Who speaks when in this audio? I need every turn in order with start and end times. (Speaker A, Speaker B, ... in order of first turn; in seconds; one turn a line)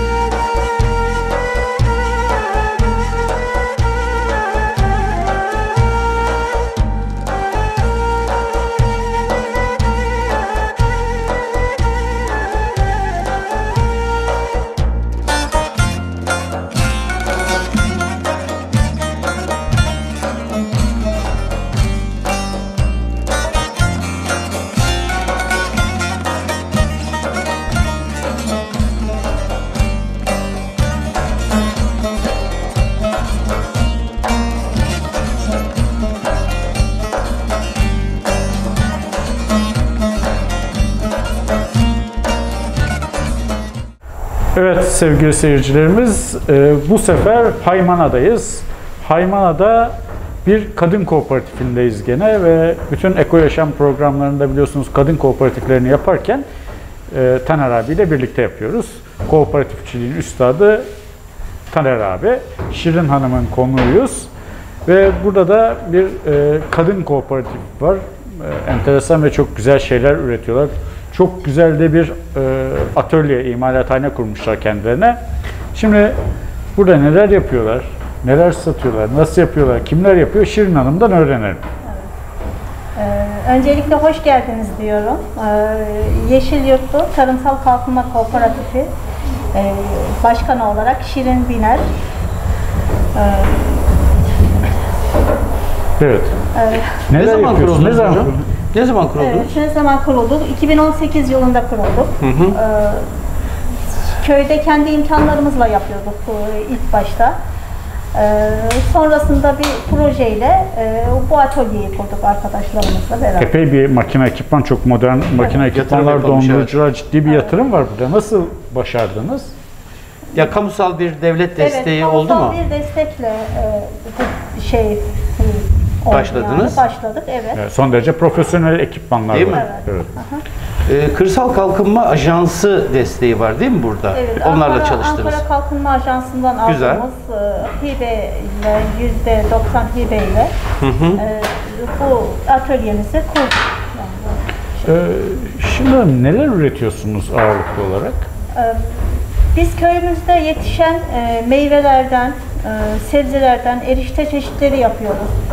Speaker A: 44.5-56.5
Speaker A: 57.1-60.9
Speaker A: 61.7-64.3
Speaker A: 64.8-75.2
Speaker A: 75.7-76.2
Speaker A: 76.8-81.6
Speaker B: 83.0-88.9
Speaker B: 89.5-91.9
Speaker B: 93.1-93.9
Speaker A: 96.0-96.3
Speaker B: 96.5-97.0
Speaker A: 97.1-98.4
Speaker C: 97.1-99.5
Speaker B: 99.2-103.1
Speaker C: 102.2-102.6
Speaker B: 104.2-107.4
Speaker B: 108.1-113.5
Speaker A: 113.4-119.5
Speaker C: 115.4-116.8
Speaker B: 117.3-117.5
Speaker C: 120.3-122.6
Speaker B: 121.6-127.6
Speaker C: 126.1-126.8
Speaker A: 127.5-130.1
Speaker C: 129.3-129.6
Speaker B: 129.5-130.4
Speaker C: 130.9-135.4
Speaker B: 134.1-140.6
Speaker C: 136.7-137.1
Speaker C: 140.8-141.2
Speaker B: 141.2-144.9
Speaker A: 144.9-148.3
Speaker B: 148.5-148.8
Speaker B: 149.5-155.3